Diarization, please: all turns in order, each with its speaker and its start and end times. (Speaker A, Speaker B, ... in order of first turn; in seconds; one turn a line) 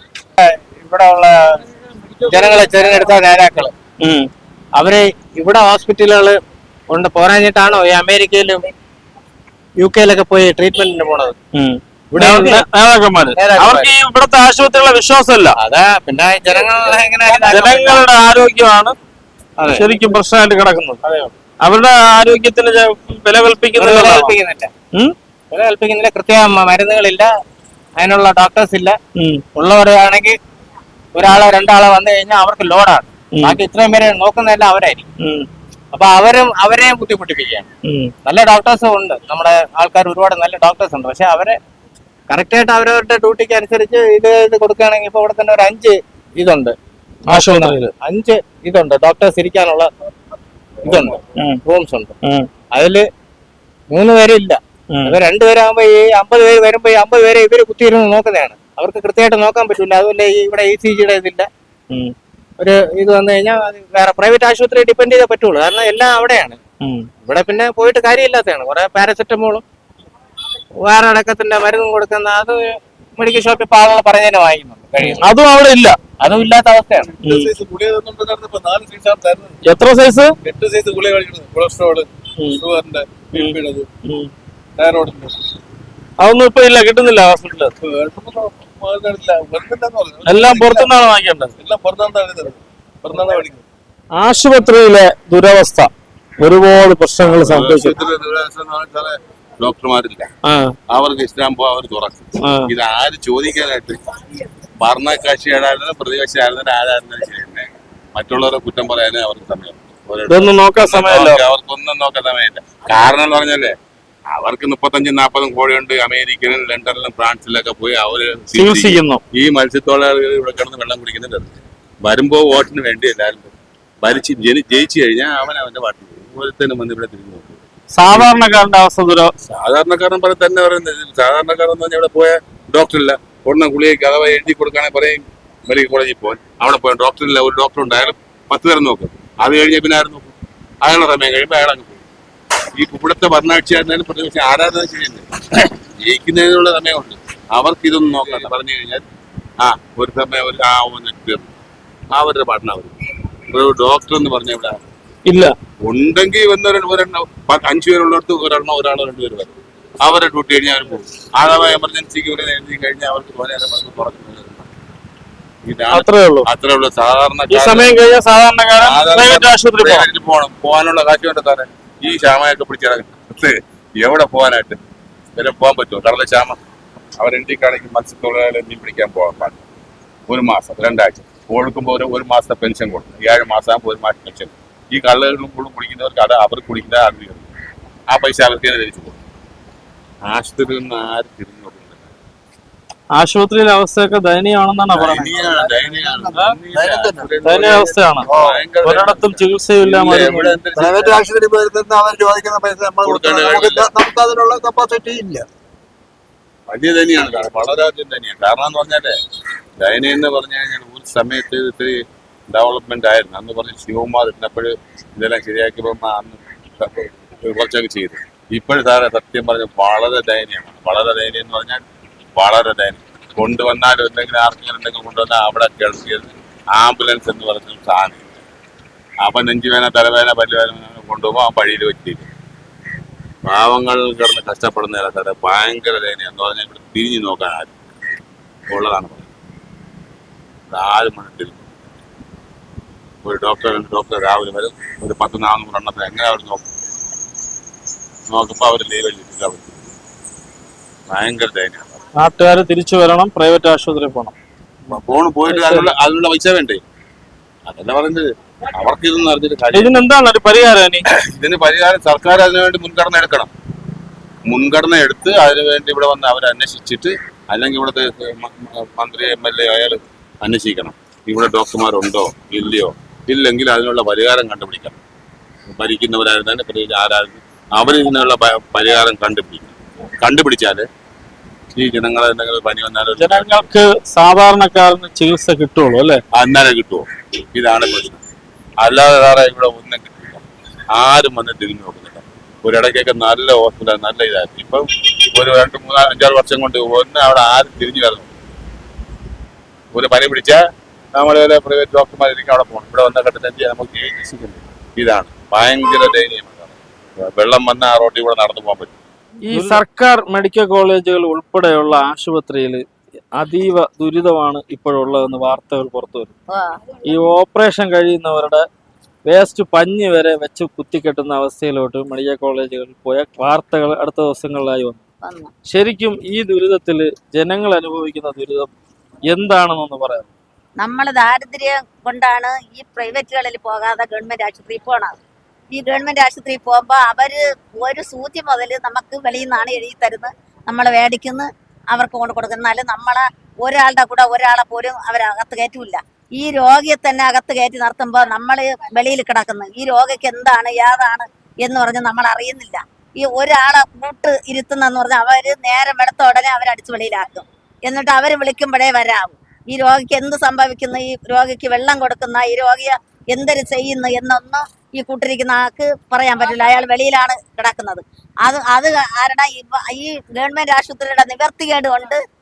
Speaker A: 0.4-1.3
Speaker A: 2.3-3.7
Speaker B: 2.3-2.8
Speaker C: 4.0-4.3
Speaker A: 4.8-6.4
Speaker A: 6.9-8.7
Speaker A: 9.8-11.3
Speaker C: 11.5-15.6
Speaker A: 12.1-12.7
Speaker A: 13.3-13.9
Speaker A: 15.6-18.1
Speaker C: 17.4-18.9
Speaker A: 19.6-20.0
Speaker C: 19.7-21.0
Speaker A: 21.0-21.3
Speaker C: 21.6-24.3
Speaker A: 23.7-24.7
Speaker A: 25.5-27.3
Speaker A: 28.0-29.0
Speaker C: 29.2-29.4
Speaker A: 29.5-30.4
Speaker A: 31.1-35.1
Speaker C: 35.2-35.5
Speaker A: 35.9-37.7
Speaker C: 37.8-38.1
Speaker A: 38.2-41.6
Speaker A: 42.3-46.7
Speaker C: 47.3-47.9
Speaker A: 47.3-49.9
Speaker A: 50.8-52.1
Speaker C: 50.9-51.6
Speaker C: 52.2-52.5
Speaker A: 52.7-53.0
Speaker A: 53.9-61.5
Speaker C: 54.9-55.2
Speaker A: 62.6-66.6
Speaker C: 66.8-67.1
Speaker A: 67.2-69.6
Speaker A: 70.8-75.2
Speaker C: 75.0-76.0
Speaker A: 76.2-77.2
Speaker C: 77.2-77.5
Speaker B: 77.2-79.6
Speaker C: 79.6-80.3
Speaker B: 80.4-83.9
Speaker C: 83.3-84.3
Speaker B: 84.8-85.3
Speaker C: 86.2-87.7
Speaker B: 87.8-90.9
Speaker C: 90.2-91.5
Speaker B: 91.6-93.6
Speaker C: 94.2-97.9
Speaker D: 97.2-100.3
Speaker C: 100.4-100.7
Speaker D: 100.9-104.0
Speaker C: 102.4-102.7
Speaker D: 104.8-113.7
Speaker C: 110.3-111.4
Speaker D: 114.3-123.5
Speaker C: 118.5-119.2
Speaker D: 124.0-127.6
Speaker C: 127.9-129.3
Speaker D: 129.4-142.0
Speaker D: 142.7-145.3
Speaker D: 146.0-149.0
Speaker D: 149.6-151.5
Speaker D: 152.1-152.9
Speaker D: 153.5-154.8
Speaker C: 155.3-155.5
Speaker D: 155.8-164.7
Speaker D: 165.7-168.1
Speaker C: 165.9-166.5
Speaker C: 167.5-170.0
Speaker D: 168.8-174.8
Speaker D: 175.3-176.6
Speaker D: 177.2-179.6
Speaker D: 180.3-187.4
Speaker D: 188.1-189.2
Speaker D: 190.2-192.1
Speaker C: 193.2-195.3
Speaker D: 194.9-201.2
Speaker E: 195.9-196.2
Speaker C: 196.3-196.6
Speaker E: 196.7-197.3
Speaker C: 197.4-198.3
Speaker E: 198.2-198.6
Speaker C: 198.8-200.6
Speaker E: 200.7-205.4
Speaker D: 203.0-203.9
Speaker D: 206.7-209.1
Speaker D: 209.8-212.0
Speaker D: 212.5-221.8
Speaker D: 222.3-228.4
Speaker D: 229.2-232.3
Speaker D: 233.5-237.7
Speaker D: 238.7-239.3
Speaker D: 240.7-241.8
Speaker D: 243.2-246.7
Speaker D: 248.3-249.8
Speaker D: 251.1-252.0
Speaker C: 252.2-254.3
Speaker D: 254.9-256.8
Speaker C: 255.5-255.9
Speaker D: 257.7-259.9
Speaker C: 259.7-261.0
Speaker D: 261.1-263.5
Speaker D: 264.5-274.9
Speaker D: 275.7-280.9
Speaker D: 281.7-283.7
Speaker C: 283.2-286.2
Speaker D: 286.3-288.2
Speaker D: 288.8-290.4
Speaker D: 290.9-294.8
Speaker D: 295.3-298.3
Speaker D: 299.9-300.6
Speaker D: 301.1-308.9
Speaker C: 309.4-312.8
Speaker C: 313.4-316.3
Speaker F: 316.5-316.8
Speaker C: 317.1-318.6
Speaker C: 319.2-325.0
Speaker F: 325.2-325.5
Speaker C: 325.7-328.7
Speaker C: 329.3-330.2
Speaker F: 330.8-335.1
Speaker F: 335.7-372.2